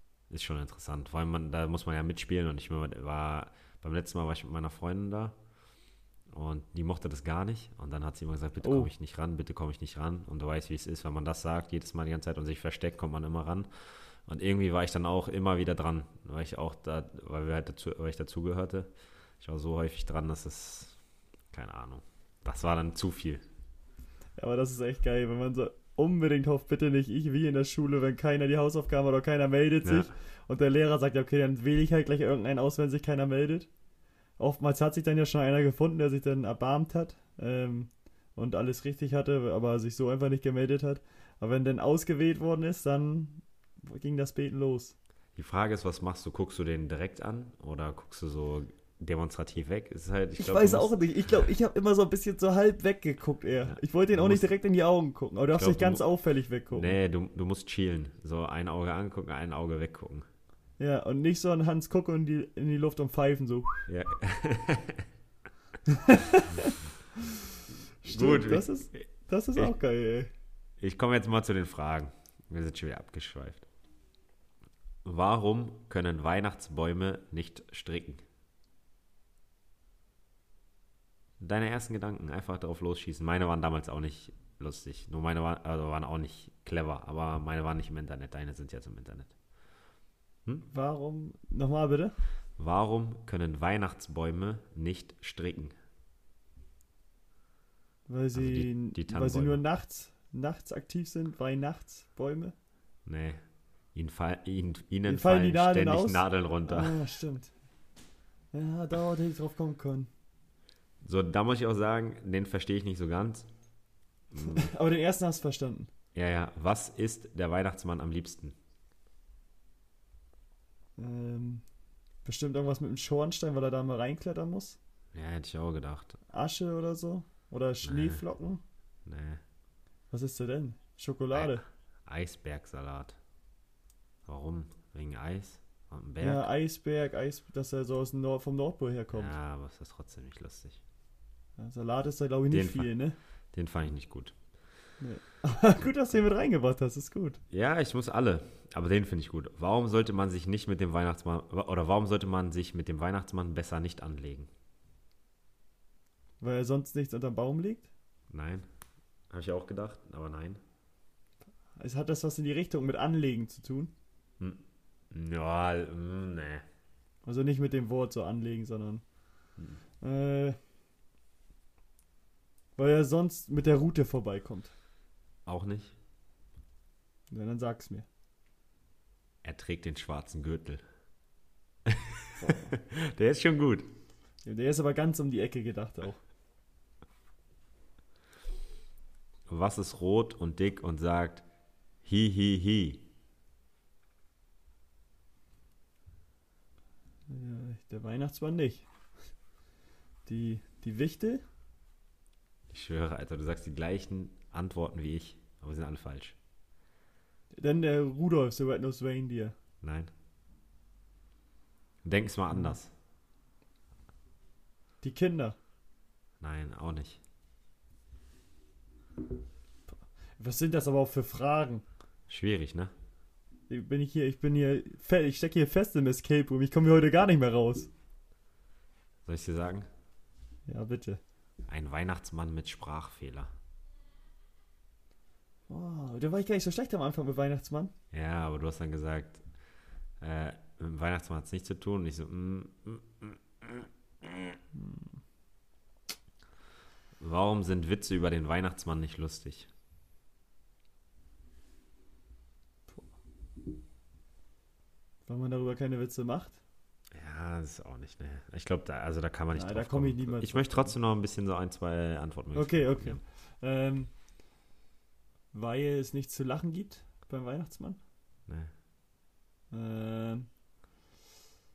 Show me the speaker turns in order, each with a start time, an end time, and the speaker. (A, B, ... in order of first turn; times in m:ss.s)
0:00.3-0:05.4 A
0:06.3-0:23.4 A
0:08.6-0:08.9 B
0:24.4-0:33.7 B
0:29.8-0:30.1 A
0:34.4-0:45.0 B
0:45.4-0:51.1 A
0:50.4-0:57.0 B
0:53.7-0:54.5 A
0:55.5-1:00.2 A
1:00.8-1:03.9 B
1:03.9-1:05.0 A
1:08.0-1:10.3 B
1:08.0-1:09.7 A
1:10.8-1:13.7 A
1:15.0-1:18.2 A
1:21.4-1:29.4 A
1:30.7-1:32.2 B
1:32.6-1:35.7 A
1:38.1-1:42.6 B
1:38.3-1:39.6 A
1:43.0-1:47.0 A
1:45.1-1:47.6 B
1:48.5-1:50.1 B
1:51.0-1:53.5 A
1:54.3-1:54.7 A
1:54.4-1:55.9 B
1:56.1-1:58.5 A
2:01.0-2:01.6 B
2:02.2-2:04.8 B
2:05.1-2:06.2 A
2:06.3-2:08.6 B
2:07.8-2:08.2 A
2:09.1-2:09.4 A
2:10.1-2:11.6 B
2:11.3-2:13.2 A
2:14.2-2:16.5 A
2:16.2-2:19.4 B
2:19.1-2:20.8 A
2:21.6-2:23.2 B
2:22.5-2:24.6 A
2:25.0-2:27.4 B
2:27.5-2:34.5 A
2:36.4-2:37.9 B
2:38.3-2:38.6 A
2:39.3-2:40.6 A
2:41.8-2:43.9 B
2:44.4-2:46.6 A
2:47.2-2:49.1 B
2:50.0-2:50.6 B
2:52.8-2:54.7 B
2:55.4-2:56.0 A
2:57.3-2:58.1 B
2:59.4-3:00.8 A
3:02.4-3:02.7 B
3:03.1-3:03.9 A
3:04.4-3:06.2 B
3:09.5-3:11.4 A
3:12.0-3:13.1 A
3:17.3-3:18.9 B
3:20.2-3:21.4 B
3:22.7-3:26.4 A
3:27.5-3:29.6 B
3:29.8-3:30.1 A
3:32.0-3:32.9 A
3:32.5-3:32.8 B
3:35.0-3:35.6 B
3:36.4-3:37.2 A
3:40.4-3:41.8 B
3:42.3-3:42.9 A
3:43.7-3:47.9 B
3:49.2-3:49.9 A
3:50.7-3:51.2 B
3:51.7-3:53.5 A
3:55.7-3:57.9 B
3:58.1-4:04.6 A
4:04.7-4:05.2 B
4:07.2-4:09.7 A
4:15.3-4:16.6 B
4:17.1-4:23.2 A
4:19.5-4:21.0 B
4:22.5-4:24.2 B
4:25.5-4:28.0 B
4:29.7-4:30.5 B